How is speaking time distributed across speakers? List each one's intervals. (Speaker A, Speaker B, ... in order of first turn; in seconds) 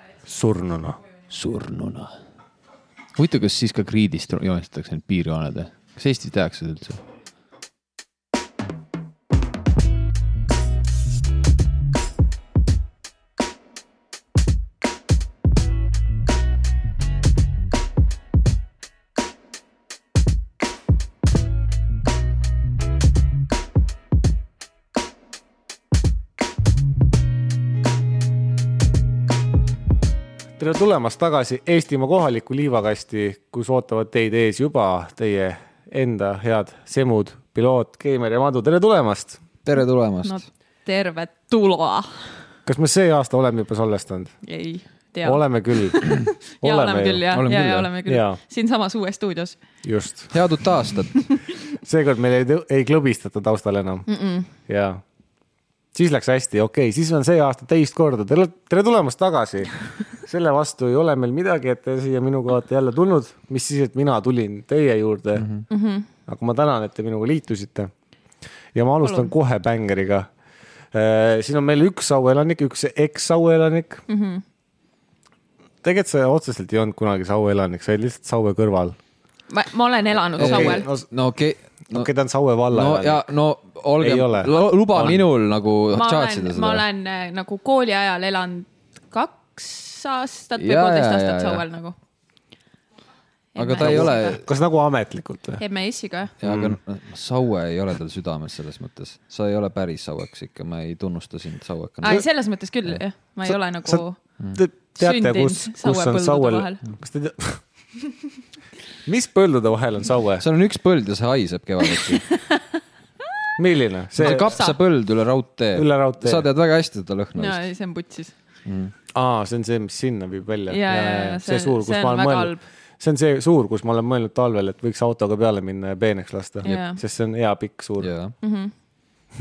Speaker A: 0.3-1.0, 30.6-39.4, 42.7-44.3, 45.2-46.1, 46.6-47.3, 48.1-48.4, 49.8-50.3, 51.7-54.1, 54.7-55.0, 55.9-65.5, 66.3-67.9, 68.7-70.3, 70.9-74.0, 75.8-79.0, 80.4-81.1, 81.9-83.3, 84.0-85.2, 93.8-95.6, 96.4-96.8, 103.5-104.0, 104.5-107.6, 109.0-110.4, 113.6-114.6, 115.8-116.5, 119.1-128.1
Speaker B: 1.3-2.1, 3.2-7.0, 39.6-40.4, 47.3-47.9, 50.3-51.3, 65.4-65.7, 80.4-82.1, 82.7-86.8, 90.6-91.6, 93.6-94.5, 96.4-102.2, 110.4-112.3, 114.2-117.6, 118.7-118.9, 128.0-128.3
Speaker C: 40.2-42.3, 44.4-49.6, 51.1-51.4, 54.1-54.5, 65.7-66.1, 69.0-69.3, 74.1-74.4, 79.5-80.9, 85.9-92.0, 93.5-94.4, 95.6-96.4, 102.0-104.2, 105.0-106.8, 112.0-112.8, 114.2-114.8, 117.4-118.3, 120.7-122.6, 126.6-127.0, 128.4-128.7